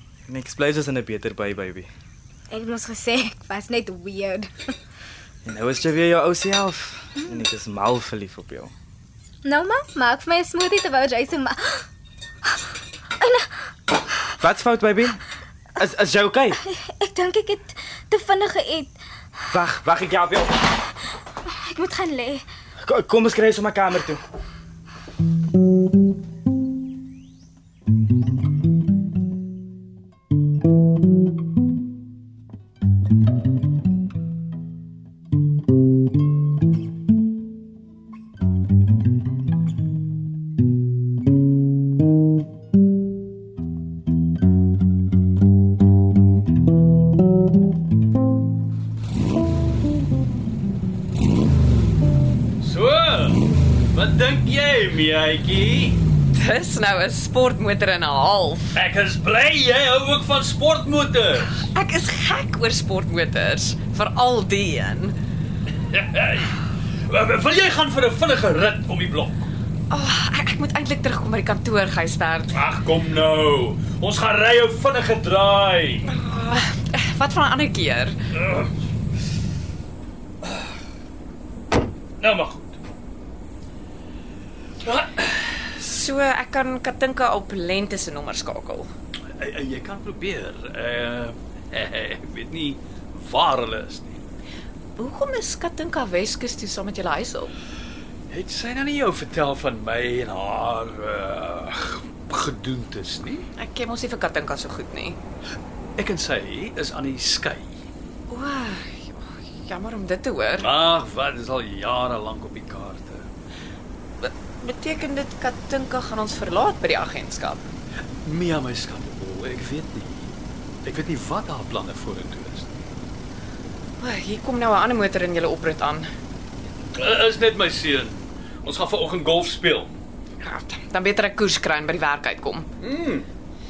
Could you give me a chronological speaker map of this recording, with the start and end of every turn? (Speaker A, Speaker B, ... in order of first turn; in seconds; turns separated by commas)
Speaker A: 0.3-1.9, Speaker B: 2.5-4.7, Speaker A: 5.5-8.7, Speaker B: 9.4-11.9, Speaker B: 13.2-13.5, Speaker A: 14.4-15.2, Speaker A: 15.8-16.6, Speaker B: 16.6-18.9, Speaker A: 19.5-20.6, Speaker B: 21.5-22.4, Speaker A: 22.8-24.2, Speaker C: 52.6-56.0, Speaker D: 56.3-58.7, Speaker C: 58.7-61.6, Speaker D: 61.6-65.2, Speaker C: 65.9-69.5, Speaker D: 69.9-72.6, Speaker C: 72.5-76.1, Speaker D: 76.0-78.2, Speaker C: 78.3-78.7, Speaker C: 82.2-82.8, Speaker C: 84.8-85.7, Speaker D: 85.8-88.9, Speaker C: 89.4-94.2, Speaker D: 95.0-97.5, Speaker C: 98.3-103.5, Speaker D: 103.6-105.2, Speaker C: 106.0-107.8, Speaker D: 108.3-110.7, Speaker C: 110.6-113.3, Speaker D: 114.2-117.7, Speaker C: 118.2-120.3, Speaker C: 120.8-122.7, Speaker D: 124.0-126.1, Speaker C: 126.9-130.0, Speaker D: 130.4-132.7, Speaker C: 132.8-133.3